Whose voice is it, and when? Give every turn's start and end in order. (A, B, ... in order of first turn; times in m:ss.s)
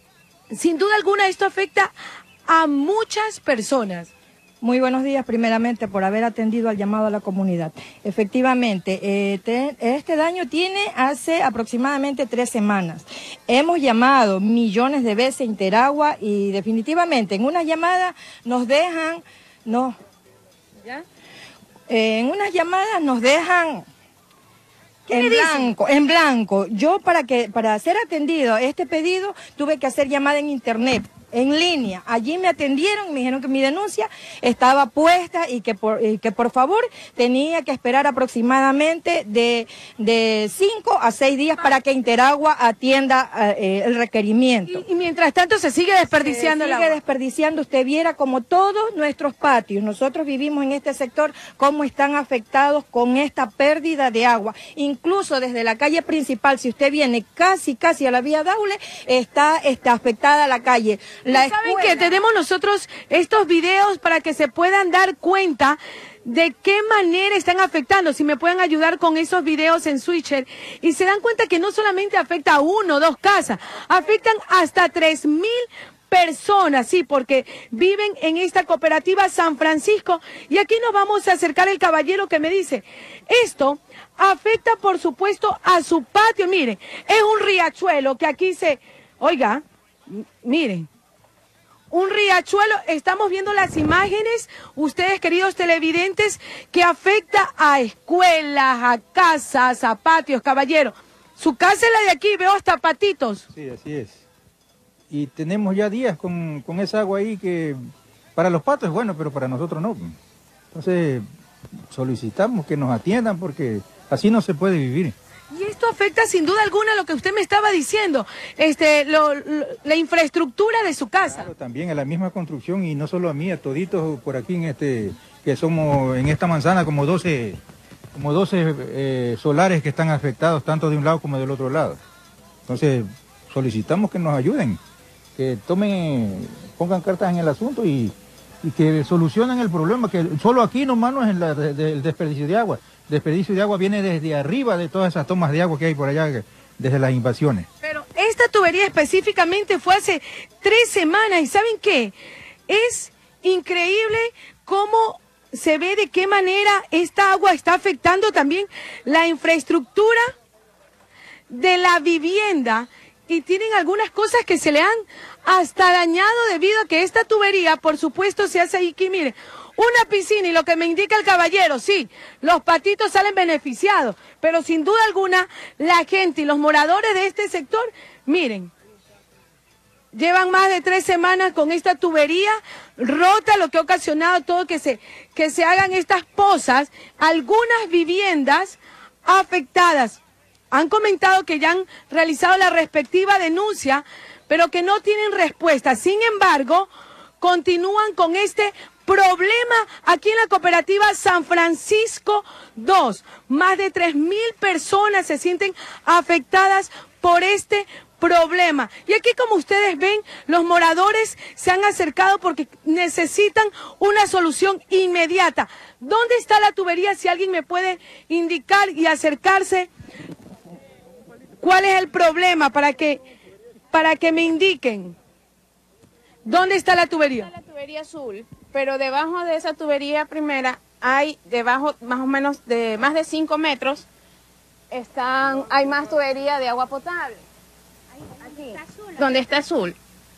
0:00.5-0:01.9 A
0:02.5-0:04.1 A
0:04.6-0:20.0 B
0:21.9-0:23.8 B
0:25.1-0:44.8 B
0:25.1-0:25.7 A
0:44.7-0:47.0 A
0:46.1-1:02.2 B
1:01.3-1:30.9 A
1:31.9-1:43.4 A
1:43.5-1:44.2 C
1:45.1-1:47.8 C
1:48.4-1:50.2 C
1:50.7-1:51.2 C
1:51.9-1:55.1 C
1:55.5-2:01.5 A
2:01.2-2:07.6 C
2:08.1-2:12.0 C
2:12.7-2:14.8 C
2:15.4-2:27.7 C
2:27.8-2:32.1 A
2:32.7-2:40.3 A
2:41.5-2:58.7 A
3:00.1-3:10.2 A
3:10.7-3:16.9 A
3:17.4-3:39.9 A
3:41.6-3:43.2 A
3:43.9-3:45.1 A
3:46.4-3:47.5 A
3:47.4-3:54.1 D
3:54.9-3:57.4 D
3:58.5-4:00.0 D